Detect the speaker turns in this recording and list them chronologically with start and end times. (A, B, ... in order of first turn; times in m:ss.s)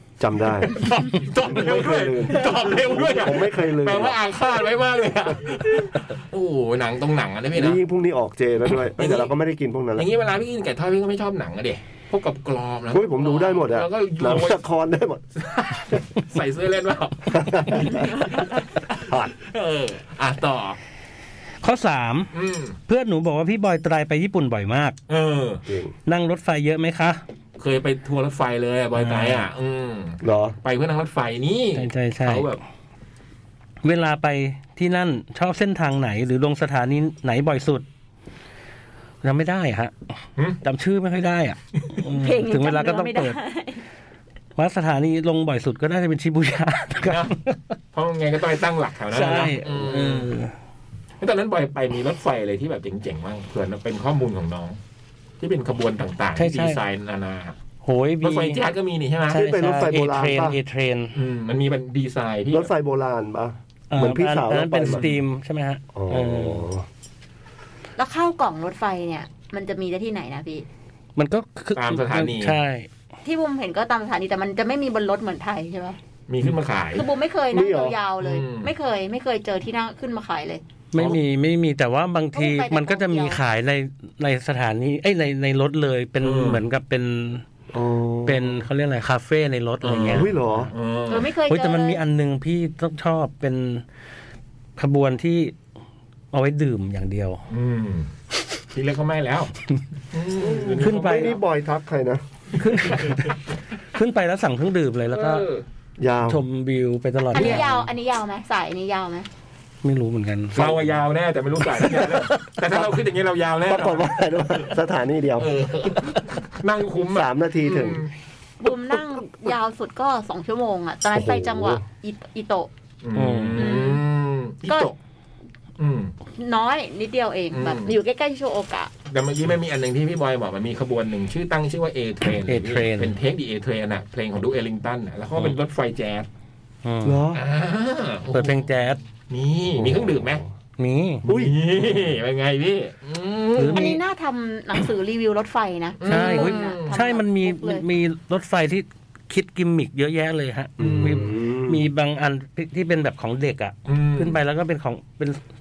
0:00.2-0:00.9 A
0:00.7-0:07.8 B
0:01.4-0:04.2 A
0:07.5-0:10.1 A
0:09.0-0:09.3 B
0:10.0-0:14.6 B
0:12.9-0:15.2 A
0:15.4-0:20.8 B
0:17.3-0:18.1 A
0:19.0-0:19.3 A
0:21.6-0:22.3 C
0:22.3-0:22.8 B
0:22.9-0:25.0 C
0:25.1-0:25.6 B
0:25.6-0:25.9 A
0:26.0-0:27.2 C
0:27.6-0:32.6 B
0:28.9-0:29.4 C
0:30.2-0:30.6 A
0:31.7-0:32.6 C
0:33.8-0:37.8 C
0:39.2-0:40.0 C
0:40.6-0:43.4 C
0:42.0-0:43.8 D
0:44.6-0:47.6 C
0:47.0-0:47.3 B
0:47.9-0:50.3 B
0:49.1-0:50.5 C
0:51.2-0:54.8 B
0:55.4-0:57.6 B
0:56.4-0:56.8 C
0:57.8-0:58.6 C
0:58.2-0:59.4 B
0:59.3-1:01.1 C
0:59.3-1:00.6 A
1:01.1-1:02.7 B
1:02.5-1:05.1 A
1:03.9-1:06.7 C
1:04.8-1:05.1 B
1:05.9-1:06.8 A
1:08.0-1:10.6 D
1:11.2-1:12.9 C
1:11.7-1:12.6 B
1:13.2-1:16.0 D
1:16.3-1:17.0 B
1:16.9-1:20.6 D
1:17.5-1:18.0 A
1:18.2-1:18.7 B
1:20.9-1:27.4 C
1:22.3-1:23.4 D
1:26.2-1:26.6 B
1:27.7-1:28.6 A
1:28.2-1:30.3 C
1:29.8-1:31.3 B
1:30.1-1:30.7 A
1:31.1-1:32.0 D
1:31.5-1:33.8 C
1:34.8-1:35.5 C
1:36.3-1:37.4 C
1:37.5-1:38.1 B
1:38.7-1:39.5 B
1:40.1-1:41.4 B
1:40.4-1:42.2 A
1:40.8-1:41.3 C
1:42.6-1:43.4 C
1:43.9-1:45.4 C
1:45.1-1:45.6 B
1:46.0-1:46.4 A
1:46.3-1:47.7 C
1:47.3-1:49.3 D
1:47.3-1:47.7 B
1:49.8-1:50.8 C
1:50.5-1:54.1 B
1:51.8-1:52.3 C
1:53.7-1:55.5 A
1:55.4-1:58.1 B
1:57.0-1:58.0 A
1:58.6-2:02.7 D
1:58.9-1:59.2 A
2:01.1-2:01.8 A
2:03.0-2:05.0 B
2:03.1-2:03.8 C
2:03.6-2:04.0 D
2:05.8-2:06.1 B
2:06.4-2:08.9 D
2:07.5-2:07.9 B
2:09.1-2:16.3 B
2:12.5-2:13.1 C
2:16.8-2:17.3 C
2:17.0-2:17.4 A
2:17.3-2:18.7 B
2:18.3-2:19.0 C
2:19.2-2:20.4 B
2:19.7-2:20.4 A
2:20.8-2:21.2 C
2:21.2-2:24.0 B
2:21.2-2:21.5 A
2:23.5-2:24.0 C
2:23.7-2:27.8 D
2:26.0-2:27.0 B
2:26.0-2:35.4 C
2:30.8-2:31.8 A
2:30.8-2:31.3 B
2:33.9-2:34.4 B